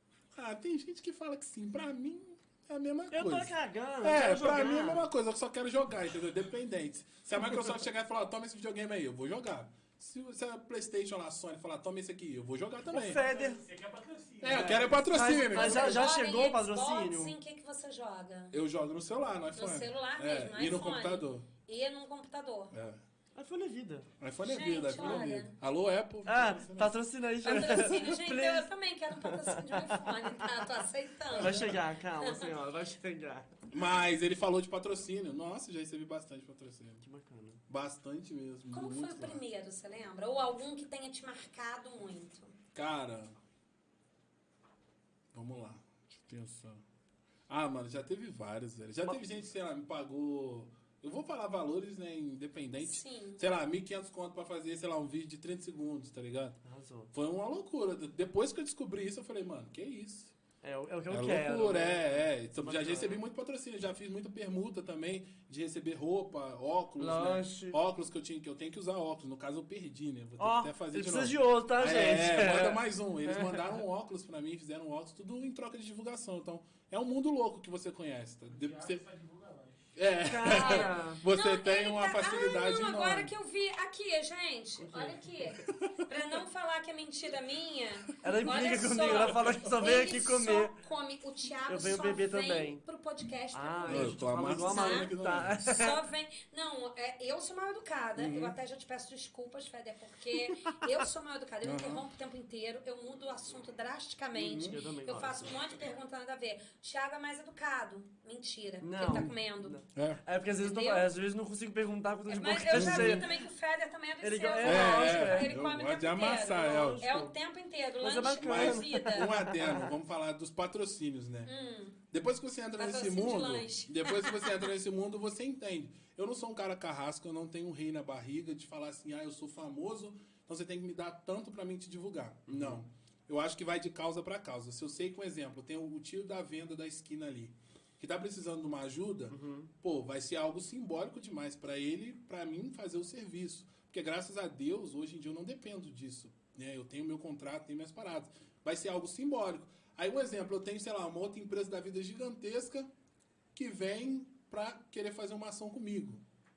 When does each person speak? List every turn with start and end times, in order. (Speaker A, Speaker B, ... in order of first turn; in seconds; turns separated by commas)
Speaker A: 0.3-13.2, Speaker B: 3.1-5.0, Speaker B: 12.9-13.6, Speaker C: 13.0-15.4, Speaker A: 14.4-16.0, Speaker B: 14.4-17.4, Speaker D: 15.4-18.6, Speaker A: 18.5-21.5, Speaker D: 19.6-22.7, Speaker A: 22.7-23.0, Speaker B: 23.4-24.1, Speaker A: 24.2-26.9, Speaker D: 24.4-25.5, Speaker B: 25.0-25.3, Speaker B: 26.3-28.7, Speaker D: 27.4-31.6, Speaker A: 27.5-27.9, Speaker B: 29.2-30.1, Speaker A: 31.4-31.7, Speaker B: 31.4-33.5, Speaker A: 33.7-37.0, Speaker B: 37.0-37.6, Speaker A: 37.7-39.4, Speaker D: 38.7-42.5, Speaker A: 42.7-43.3, Speaker A: 45.3-46.8, Speaker A: 47.5-56.6, Speaker D: 52.8-53.4, Speaker B: 56.6-57.1, Speaker A: 57.1-60.3, Speaker B: 60.6-63.2, Speaker A: 61.1-79.0, Speaker B: 67.0-67.8, Speaker B: 70.4-73.8, Speaker C: 78.5-79.9, Speaker A: 80.0-83.3, Speaker B: 80.3-81.2, Speaker D: 80.4-95.1, Speaker B: 84.8-85.3, Speaker B: 88.2-90.7, Speaker B: 91.7-92.8, Speaker B: 93.5-96.0, Speaker A: 93.9-95.6, Speaker D: 95.7-109.8, Speaker A: 98.2-98.6, Speaker A: 101.6-102.0, Speaker A: 104.3-104.8, Speaker B: 104.7-105.6, Speaker B: 108.8-113.4, Speaker A: 110.0-110.2, Speaker D: 110.6-111.1, Speaker D: 112.3-119.3, Speaker A: 112.7-113.3, Speaker B: 114.2-115.5, Speaker A: 114.6-117.1, Speaker B: 116.6-117.3, Speaker B: 118.0-119.9, Speaker A: 118.4-121.5, Speaker D: 121.5-122.0, Speaker A: 122.1-152.9, Speaker D: 122.8-124.7, Speaker B: 132.5-132.8, Speaker B: 139.3-139.7, Speaker A: 153.5-156.2